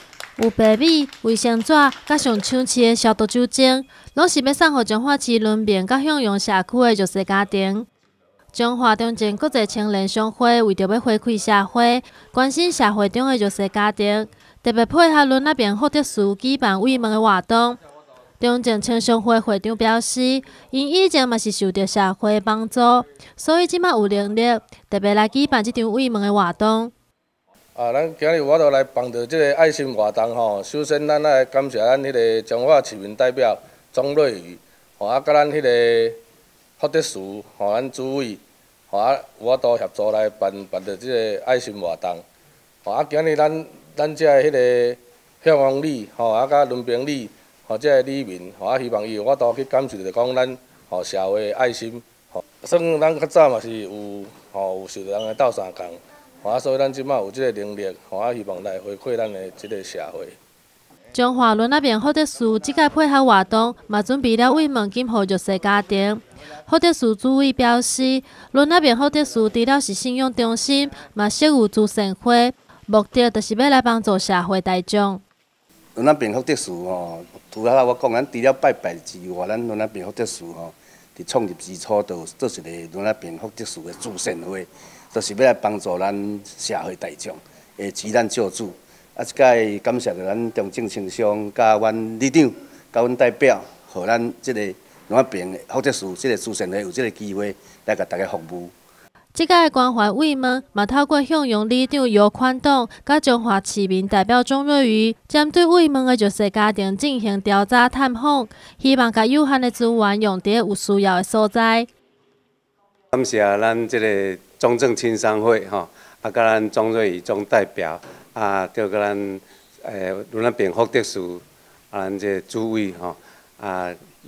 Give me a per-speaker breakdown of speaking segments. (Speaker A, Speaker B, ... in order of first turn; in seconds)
Speaker A: 0.4-7.9, 8.5-17.8, 18.4-26.9, 61.1-75.2, 99.3-111.9
Speaker B: 27.8-36.2, 36.8-42.2, 42.9-60.4
Speaker C: 76.0-98.7
Speaker D: 113.1-124.0